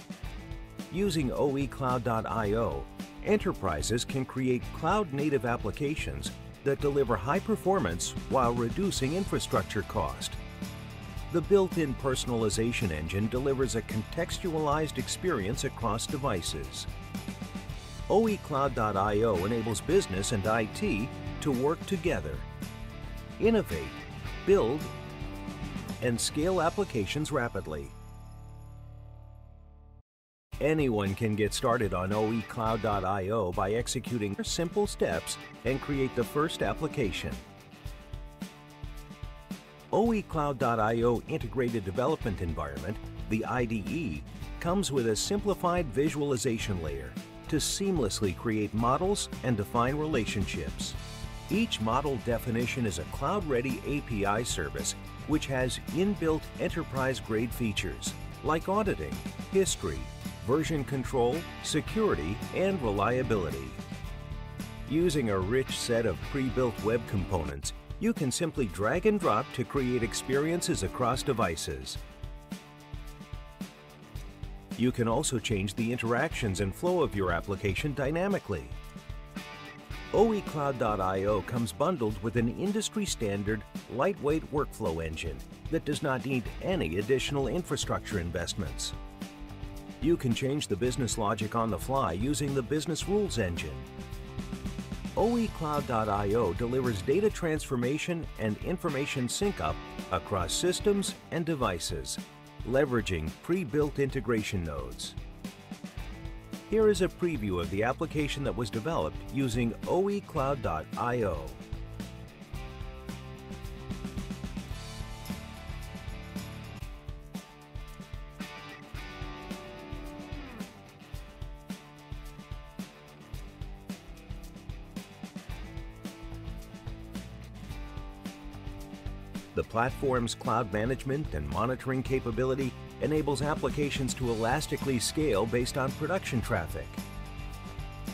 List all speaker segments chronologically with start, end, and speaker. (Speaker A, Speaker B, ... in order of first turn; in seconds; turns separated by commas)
Speaker A: 0.9-10.4, Speaker A: 11.3-16.9, Speaker A: 18.1-22.5, Speaker A: 23.4-24.9, Speaker A: 26.0-27.9, Speaker A: 30.6-37.4, Speaker A: 39.9-63.8, Speaker A: 64.8-72.0, Speaker A: 74.8-78.8, Speaker A: 80.1-88.9, Speaker A: 90.0-93.9, Speaker A: 95.1-105.2, Speaker A: 106.7-111.6, Speaker A: 129.5-137.0